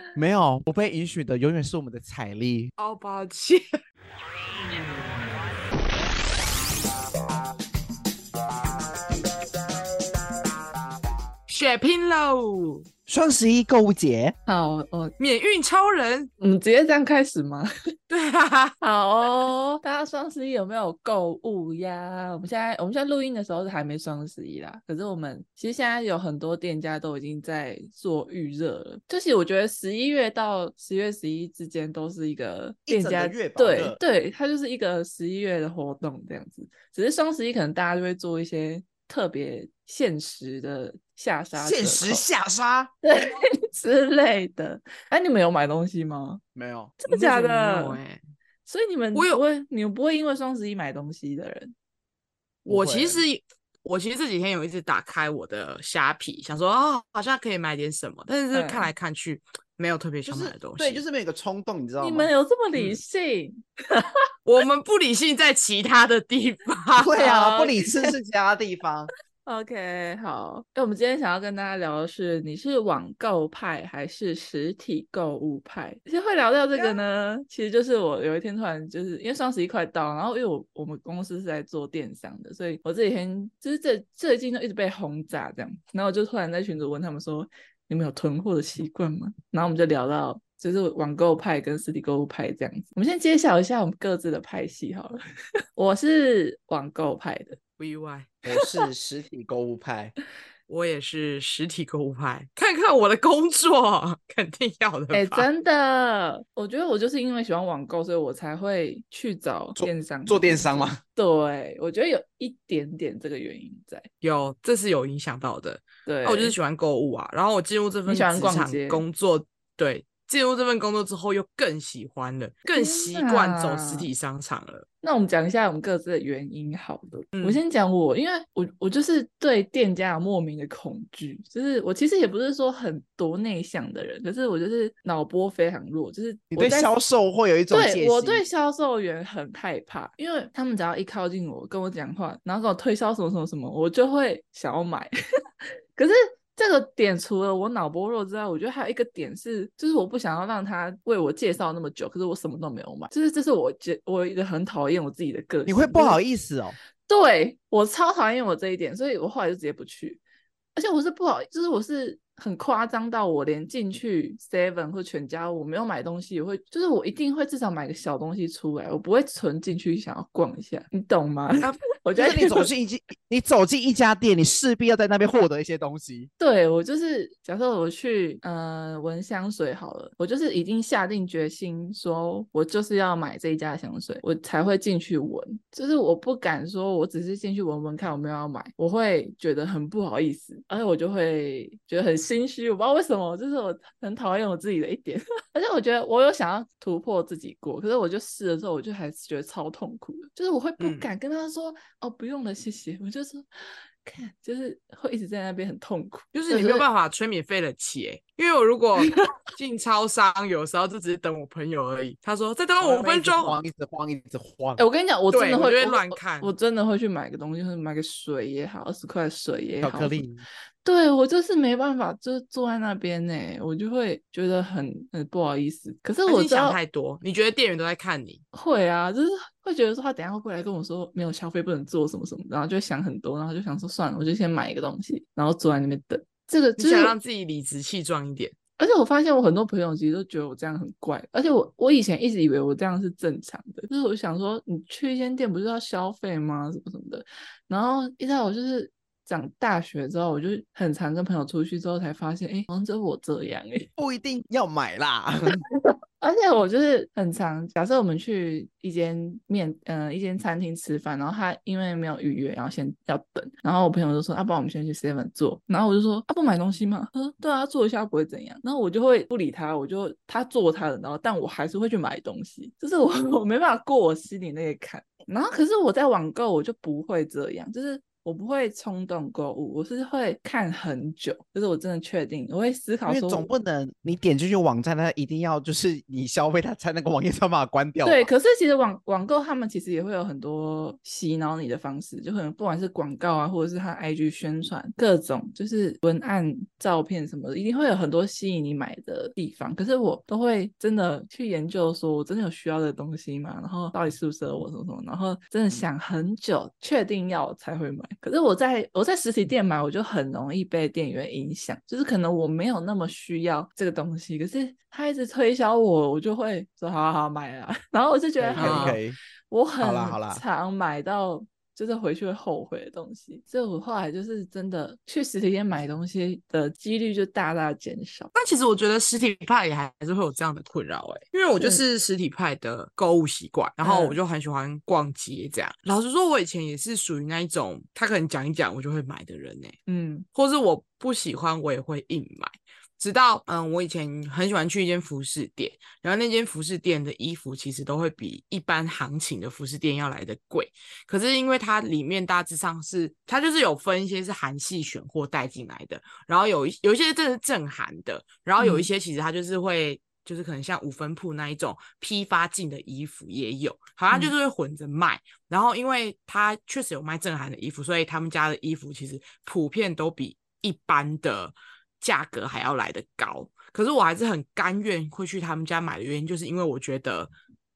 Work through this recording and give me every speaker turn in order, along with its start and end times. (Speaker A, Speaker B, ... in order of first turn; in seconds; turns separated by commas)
Speaker A: 0.2-2.7, Speaker B: 2.8-3.6, Speaker B: 11.5-12.9, Speaker A: 13.1-14.3, Speaker C: 14.5-15.1, Speaker B: 15.2-16.3, Speaker C: 16.4-17.7, Speaker B: 18.1-18.8, Speaker C: 18.8-42.3, Speaker A: 32.9-34.0, Speaker A: 41.5-42.9, Speaker C: 43.0-46.4, Speaker A: 46.5-46.9, Speaker C: 47.0-48.0, Speaker B: 47.1-48.2, Speaker C: 48.7-51.7, Speaker B: 49.1-49.4, Speaker B: 52.6-61.0, Speaker A: 52.7-53.2, Speaker C: 58.5-58.9, Speaker A: 60.3-62.3, Speaker C: 62.0-64.3, Speaker B: 64.5-67.1, Speaker A: 67.0-69.1, Speaker C: 67.1-68.1, Speaker C: 69.5-95.2, Speaker B: 76.7-77.0, Speaker C: 95.8-97.6, Speaker B: 97.8-98.3, Speaker A: 98.5-100.1, Speaker B: 100.7-105.5, Speaker C: 105.1-114.1, Speaker A: 109.8-111.0, Speaker B: 114.2-124.9, Speaker C: 116.1-116.6, Speaker C: 118.1-119.0, Speaker C: 122.7-124.1, Speaker C: 125.0-136.9, Speaker B: 127.3-127.6, Speaker A: 136.5-138.4, Speaker C: 137.7-145.1, Speaker C: 146.0-156.2, Speaker A: 155.7-156.8, Speaker C: 157.1-160.2, Speaker C: 160.8-172.7, Speaker A: 172.2-176.3, Speaker C: 176.4-206.8, Speaker B: 200.8-201.1, Speaker B: 206.3-213.6, Speaker A: 212.8-214.9, Speaker C: 214.8-220.2, Speaker B: 215.3-216.5, Speaker A: 219.8-220.4, Speaker C: 220.8-226.8, Speaker B: 226.3-228.4, Speaker C: 228.5-237.2, Speaker B: 236.8-238.6, Speaker C: 238.8-253.9, Speaker A: 254.0-255.6, Speaker C: 255.9-283.5, Speaker A: 283.1-288.3, Speaker C: 288.0-328.3, Speaker A: 318.4-319.2, Speaker B: 318.6-319.0, Speaker A: 319.8-320.4, Speaker B: 328.3-339.8, Speaker C: 333.8-334.2, Speaker C: 339.9-340.3, Speaker B: 340.3-377.3, Speaker C: 358.6-358.9